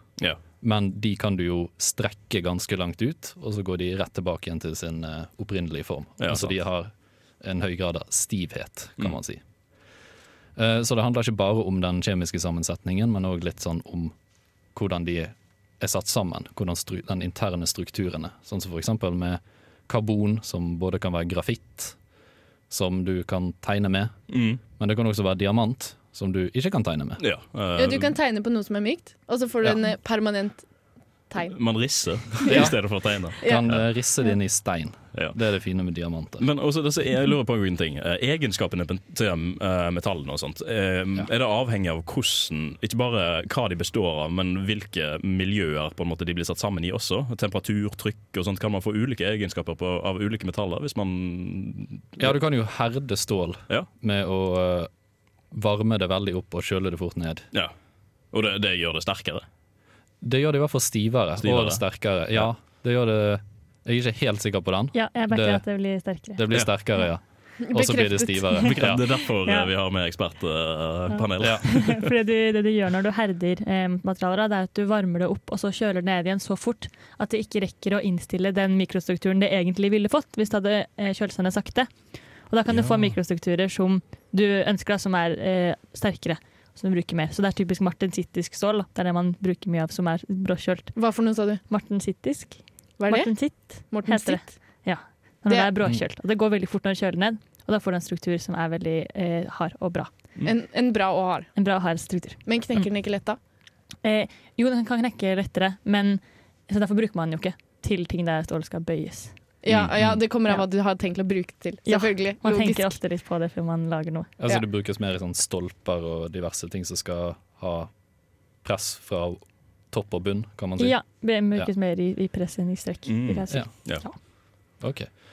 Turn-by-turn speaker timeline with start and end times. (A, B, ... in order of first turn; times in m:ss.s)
0:00.6-0:09.4 A
0:06.2-0:06.5 B
0:10.6-0:14.2 A
0:14.7-0:22.0 A
0:22.7-0:24.1 A
0:24.3-0:24.6 B
0:24.7-0:27.2 A
0:27.2-0:28.2 B
0:27.8-0:30.7 C
0:31.3-0:31.6 C
0:31.5-0:33.8 B
0:32.5-0:36.5 A
0:36.4-0:52.3 B
0:52.2-0:54.9 A
0:55.5-0:57.5 A
0:58.3-0:59.4 B
1:00.2-1:05.6 A
1:01.4-1:01.8 B
1:04.9-1:06.4 D
1:06.4-1:09.2 A
1:07.7-1:08.6 C
1:08.6-1:12.0 B
1:11.1-1:21.9 D
1:11.4-1:11.6 A
1:22.5-1:31.0 D
1:22.7-1:23.1 A
1:31.0-1:31.6 C
1:31.7-1:40.1 D
1:33.0-1:34.6 C
1:40.4-1:41.5 C
1:41.6-1:42.9 D
1:42.5-1:43.4 C
1:44.0-1:49.3 D
1:49.6-1:52.9 C
1:51.9-1:54.3 D
1:54.4-1:57.9 A
1:58.6-2:01.0 A
2:00.8-2:04.2 D
2:03.1-2:04.0 B
2:04.8-2:05.1 A